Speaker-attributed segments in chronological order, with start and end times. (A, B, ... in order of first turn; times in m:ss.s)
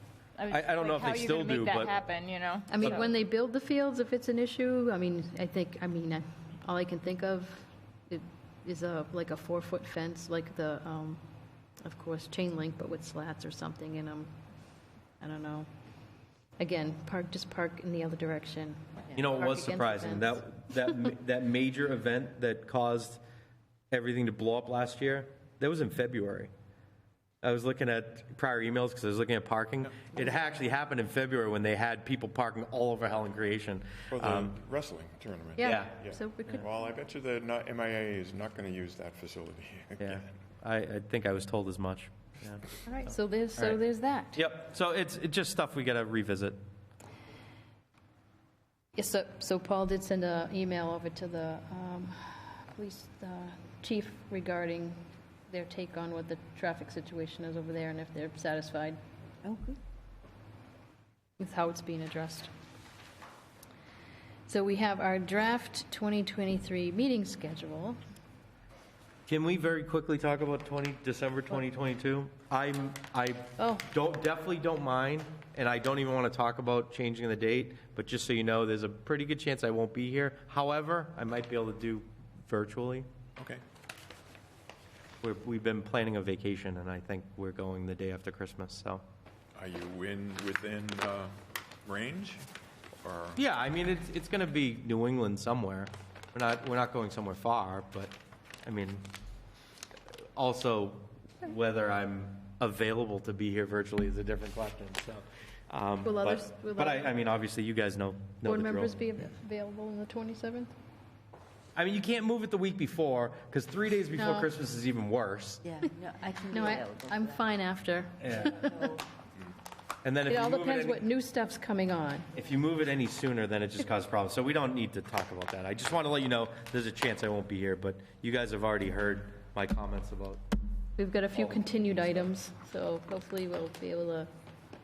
0:00.4-0:03.1 A
0:00.5-0:02.0 B
0:02.7-0:11.2 C
0:11.8-0:14.3 C
0:15.2-0:15.7 C
0:16.6-0:20.4 C
0:19.1-0:23.2 B
0:23.9-0:26.5 B
0:27.4-0:34.6 B
0:34.1-0:40.3 D
0:35.6-0:36.6 C
0:35.6-0:36.0 B
0:40.0-0:42.6 B
0:43.0-0:44.4 C
0:43.5-0:43.8 B
0:44.3-0:46.6 B
0:48.9-0:59.0 C
0:59.4-0:59.8 E
1:01.4-1:02.5 C
1:04.5-1:08.0 C
1:09.3-1:23.1 B
1:13.6-1:13.8 C
1:25.2-1:29.0 B
1:29.5-1:32.4 D
1:33.0-1:33.4 D
1:33.4-1:38.1 B
1:38.6-1:39.0 B
1:40.4-1:49.0 B
1:46.0-1:47.2 C
1:48.4-1:50.7 C
1:51.8-1:55.6 B
1:54.1-1:54.5 C
1:55.6-1:57.5 E
1:56.5-1:58.9 C
1:58.2-1:58.6 B
1:58.7-1:59.0 E
2:00.0-2:01.0 B
2:00.3-2:02.3 C
2:02.3-2:10.4 B
2:11.0-2:14.3 C
2:11.8-2:12.2 B